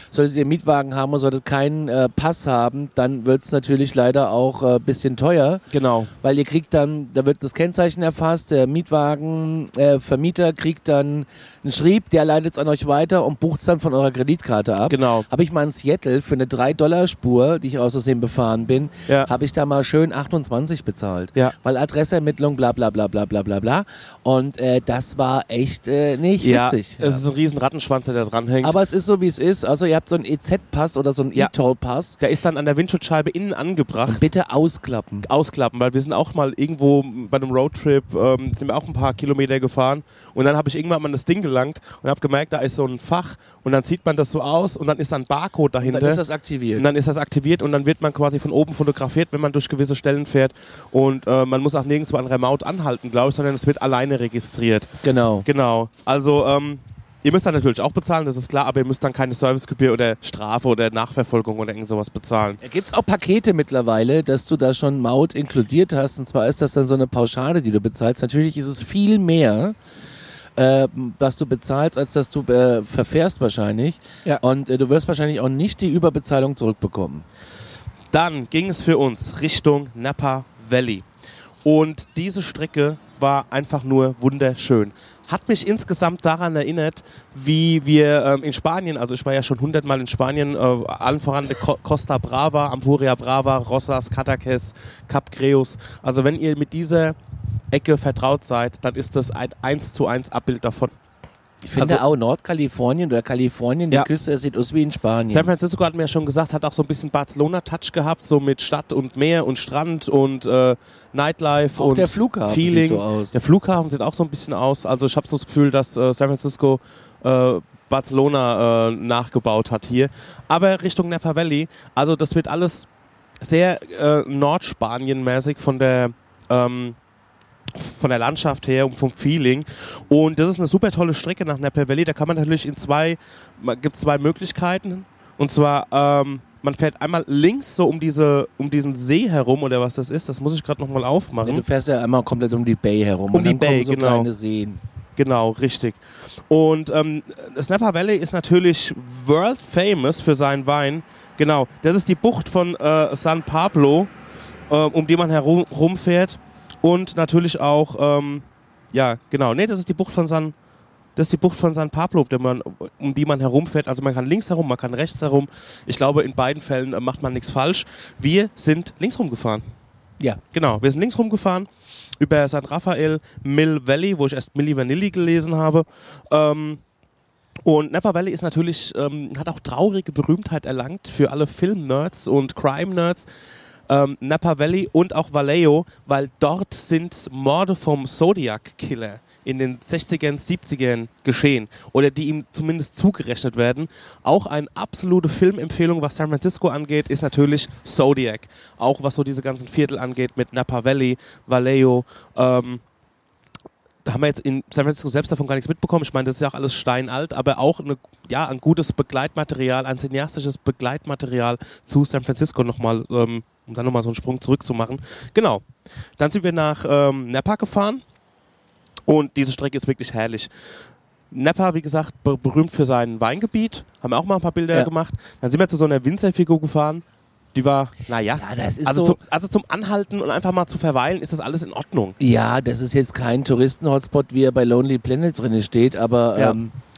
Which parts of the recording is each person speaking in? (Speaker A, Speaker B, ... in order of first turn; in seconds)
Speaker A: 0.1-5.6, 6.2-27.2, 28.6-32.2, 34.1-35.3, 45.8-46.9, 55.0-55.5, 62.6-69.8, 70.6-77.3, 101.7-105.5, 111.8-113.4, 141.4-144.8, 228.4-229.2, 232.2-236.7
Speaker B: 5.7-6.1, 14.9-15.3, 26.4-28.8, 32.2-34.3, 35.2-46.2, 46.8-54.9, 55.5-62.6, 78.1-81.1, 81.6-97.2, 97.7-100.9, 101.8-102.0, 105.3-122.9, 123.4-127.0, 127.7-141.6, 143.3-144.3, 145.2-154.1, 154.7-160.5, 161.2-169.6, 170.5-171.7, 172.2-176.8, 177.6-183.3, 183.9-202.8, 204.0-215.7, 216.2-218.0, 219.1-220.5, 221.3-232.2